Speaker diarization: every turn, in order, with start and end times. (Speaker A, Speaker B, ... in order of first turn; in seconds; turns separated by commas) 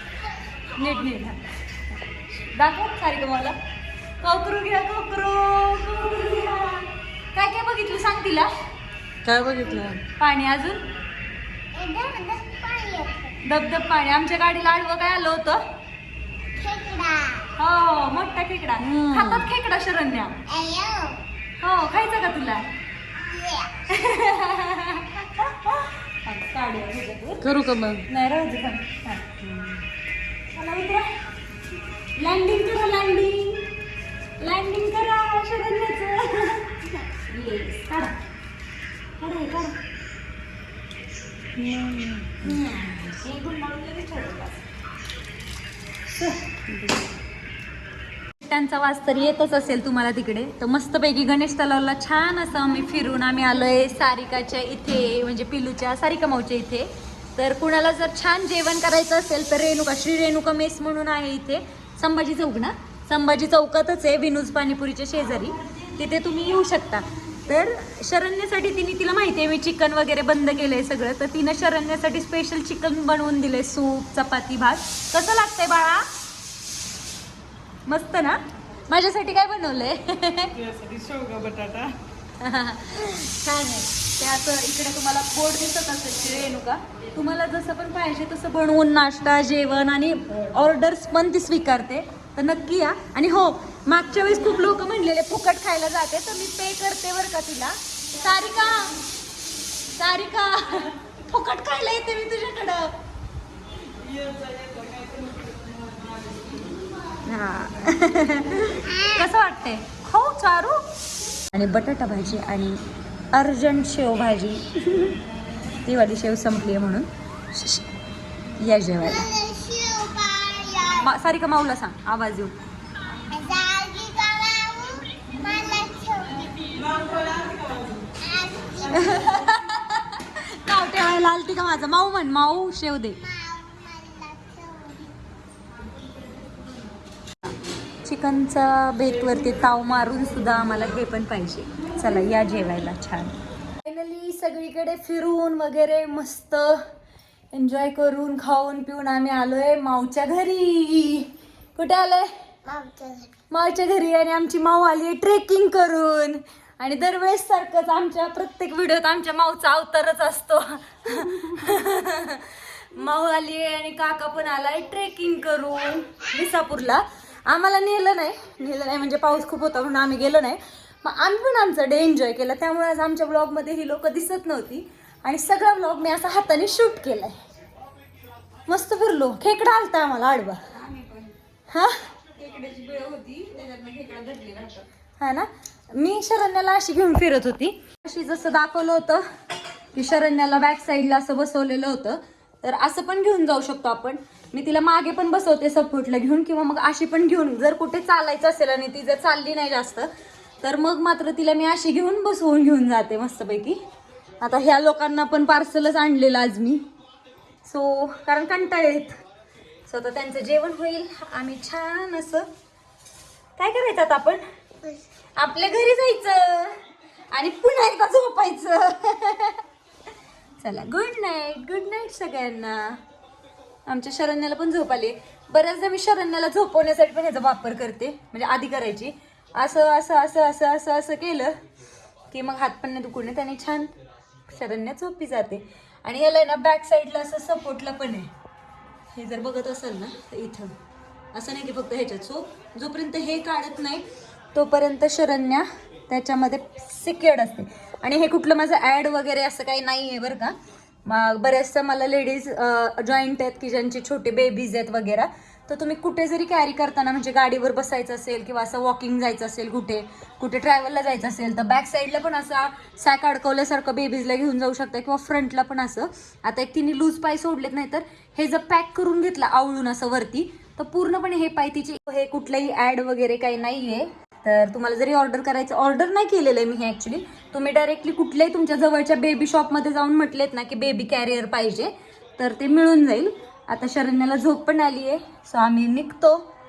Speaker A: 0.7-3.6, Speaker A: 4.2-8.5, Speaker B: 9.3-10.0, Speaker A: 10.0-10.8, Speaker C: 11.8-13.4, Speaker A: 13.4-15.6, Speaker C: 16.6-17.5, Speaker A: 17.6-20.4, Speaker C: 20.5-21.2, Speaker A: 21.6-22.7, Speaker C: 23.1-23.9, Speaker A: 23.9-29.6, Speaker B: 27.5-28.0, Speaker A: 30.5-31.1, Speaker A: 32.2-33.7, Speaker A: 34.4-38.2, Speaker A: 39.2-39.8, Speaker A: 41.7-44.6, Speaker A: 46.2-47.1, Speaker A: 48.4-76.1, Speaker A: 77.9-80.7, Speaker B: 80.8-81.9, Speaker A: 82.4-99.0, Speaker A: 100.0-103.0, Speaker A: 107.2-110.8, Speaker C: 108.8-109.3, Speaker A: 111.5-112.8, Speaker A: 113.3-115.2, Speaker A: 115.7-117.8, Speaker A: 118.6-119.3, Speaker C: 119.0-121.1, Speaker A: 121.0-122.6, Speaker C: 123.3-129.5, Speaker A: 128.9-133.2, Speaker C: 133.2-135.1, Speaker A: 138.1-143.3, Speaker A: 143.8-146.8, Speaker A: 147.5-152.3, Speaker C: 152.7-153.3, Speaker A: 153.5-177.4, Speaker A: 178.7-189.2, Speaker A: 189.9-200.1, Speaker A: 200.6-203.8, Speaker A: 204.4-206.8, Speaker A: 207.7-209.2, Speaker A: 209.9-212.5, Speaker A: 213.6-214.4, Speaker A: 215.4-216.8, Speaker A: 217.3-219.6, Speaker A: 220.6-223.0, Speaker A: 223.9-231.5, Speaker A: 232.3-233.9, Speaker A: 234.5-238.3, Speaker A: 239.1-240.7, Speaker A: 241.3-250.6, Speaker A: 251.1-286.5